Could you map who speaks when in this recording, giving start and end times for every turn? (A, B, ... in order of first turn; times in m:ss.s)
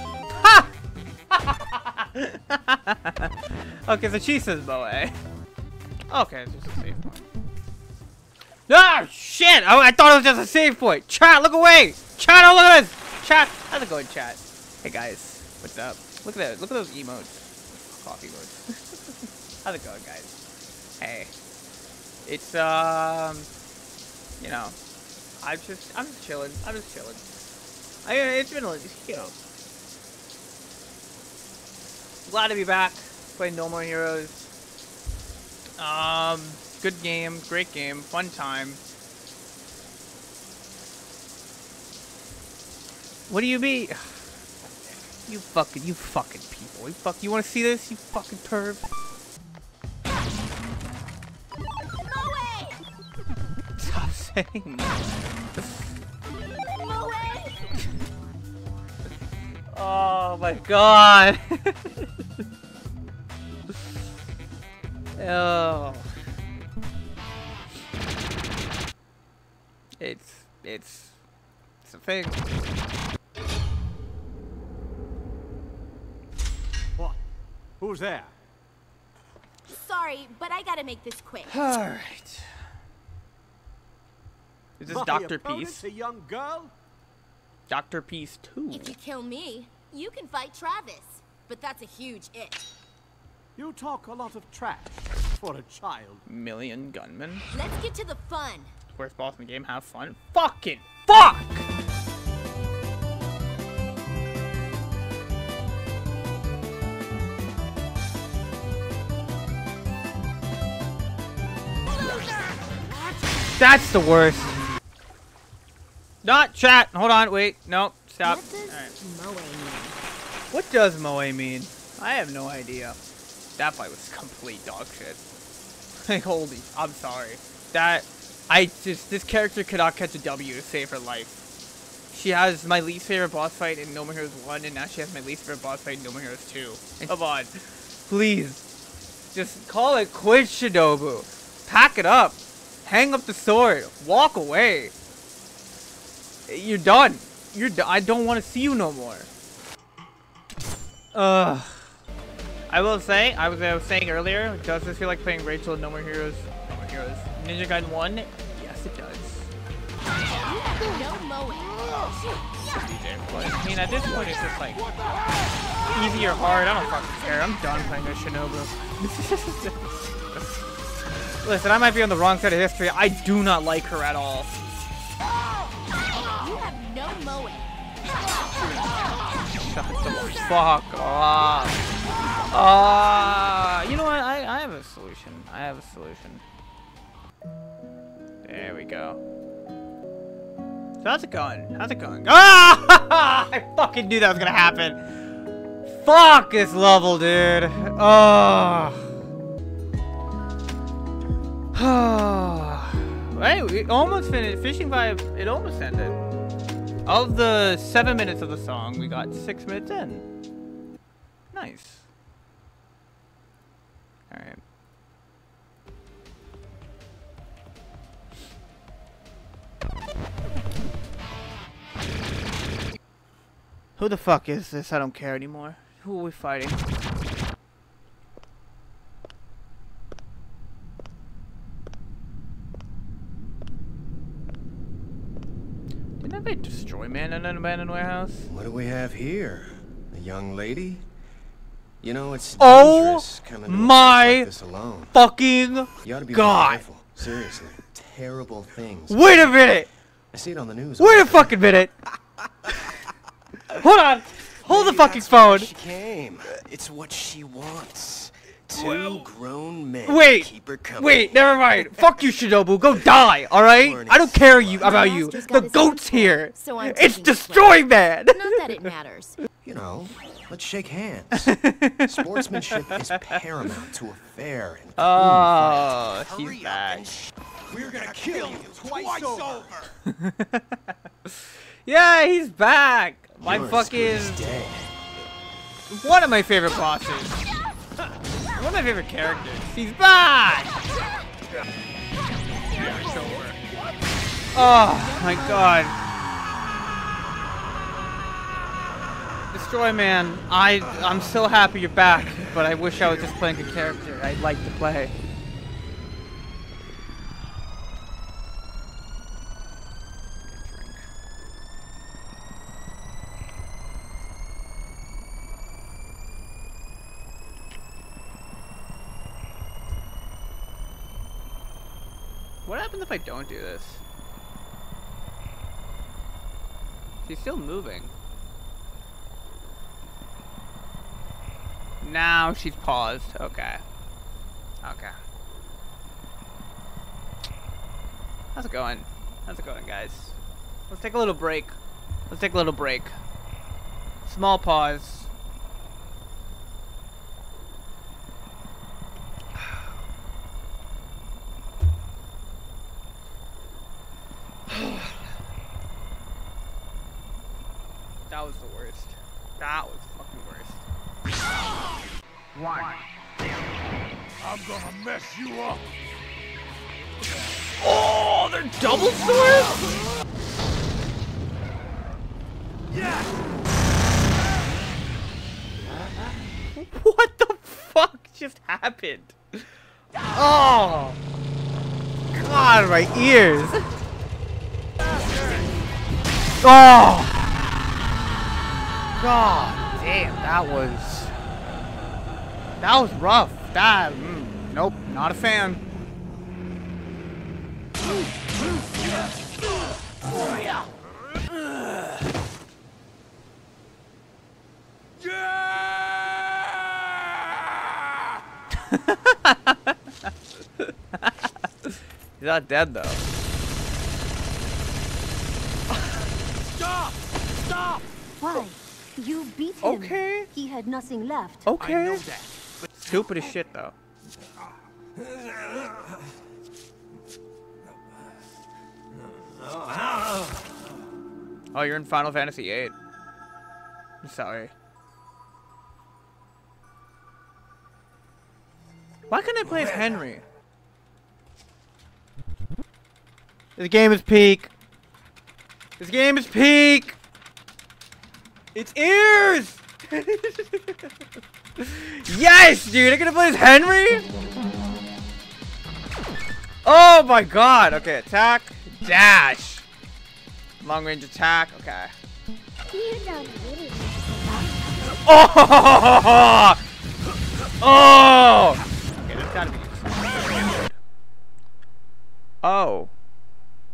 0:00.4-0:00.7 A
0:01.3-0:03.3 A
0:03.8-0:05.1 A
0:06.1-0:07.3 A
0:08.7-0:19.0 A
0:19.6-0:20.3 A
0:21.0-0:21.3 A
0:22.2-0:23.5 A
0:24.4-0:24.8 A
0:25.4-0:27.2 A
0:28.0-0:29.4 A
0:32.2-0:34.5 A
0:35.8-0:38.8 A
0:43.3-0:44.2 A
0:45.2-0:48.9 A
0:52.0-0:52.8 B
0:53.8-0:55.0 A
0:56.7-0:57.8 B
0:59.7-1:01.9 A
1:05.2-1:06.1 A
1:10.0-1:11.2 A
1:11.8-1:12.4 A
1:17.8-1:18.3 C
1:19.6-1:21.7 B
1:21.5-1:22.5 A
1:24.8-1:25.8 A
1:24.8-1:26.7 C
1:27.7-1:29.0 A
1:28.7-1:32.7 B
1:33.6-1:36.2 C
1:36.2-1:37.4 A
1:37.5-1:38.7 B
1:38.9-1:41.7 A
1:53.5-1:54.6 A
1:56.2-1:58.9 A
1:58.2-1:59.4 D
1:58.4-2:00.0 B
2:00.5-2:03.0 A
2:03.6-2:05.2 A
2:06.0-2:11.4 A
2:12.1-2:18.6 A
2:19.3-2:24.9 A
2:26.5-2:29.3 A
2:31.1-2:31.9 A
2:32.7-2:39.5 A
2:40.4-2:42.3 B
2:42.8-2:44.8 A
2:45.8-2:50.6 A
2:51.4-2:54.6 A
2:56.2-2:57.7 B
2:59.5-3:01.8 A
3:02.5-3:06.4 A
3:08.4-3:09.2 A
3:11.0-3:15.0 A
3:15.9-3:19.0 A
3:21.7-3:26.2 A
3:27.0-3:30.2 A
3:31.5-3:32.1 A
3:34.3-3:34.6 A
3:44.0-3:46.8 A
3:56.2-3:58.5 A
3:58.5-4:01.0 E
4:02.0-4:05.1 E
4:02.6-4:04.5 A
4:05.1-4:06.8 A
4:06.0-4:09.8 E
4:09.1-4:09.9 A
4:10.3-4:11.6 E
4:11.0-4:11.9 A
4:13.8-4:15.7 A
4:14.6-4:22.0 E
4:18.8-4:19.2 F
4:20.0-4:28.9 A
4:22.9-4:23.1 E
4:23.7-4:25.0 E
4:24.8-4:26.4 D
4:24.8-4:27.8 B
4:28.4-4:29.4 B
4:29.6-4:36.2 E
4:31.4-4:33.4 A
4:35.0-4:37.1 A
4:36.2-4:37.1 G
4:37.7-4:39.9 F
4:37.7-4:39.8 G
4:40.0-4:44.6 A
4:43.4-4:44.9 E
4:45.9-4:47.4 A
4:48.5-4:50.8 A
4:52.7-4:53.6 A
4:52.7-4:53.4 B
4:54.5-4:55.9 A
4:55.1-4:55.7 B
4:59.5-5:05.1 A
5:10.4-5:11.0 A
5:22.6-5:24.0 A
5:27.2-5:28.1 A
5:32.0-5:33.8 A
5:34.8-5:35.1 A
5:38.5-5:40.3 A
5:40.9-5:41.8 A
5:42.3-5:43.2 A
5:44.2-5:45.3 A
5:54.7-5:55.2 A
5:58.3-6:00.8 A
6:02.5-6:03.0 A
6:04.4-6:05.8 F
6:07.8-6:09.8 A
6:16.7-6:19.7 A
6:20.3-6:21.2 A
6:22.3-6:23.9 A
6:26.6-6:27.5 A
6:29.2-6:31.3 A
6:32.8-6:35.8 A
6:48.9-6:50.0 A
6:50.8-6:53.2 A
6:56.8-6:57.2 G
6:57.7-6:58.0 G
6:58.4-7:01.7 D
6:59.8-7:00.5 A
7:01.6-7:02.2 A
7:01.8-7:02.9 G
7:03.0-7:03.9 A
7:11.7-7:13.0 A
7:14.2-7:14.7 A
7:19.3-7:20.4 A
7:23.8-7:24.7 A
7:26.0-7:27.2 A
7:28.7-7:31.0 A
7:31.8-7:34.3 A
7:36.8-7:39.8 A
7:40.8-7:42.1 A
7:42.9-7:44.8 D
7:45.2-7:46.8 A
7:47.8-7:51.0 A
7:52.6-7:53.1 A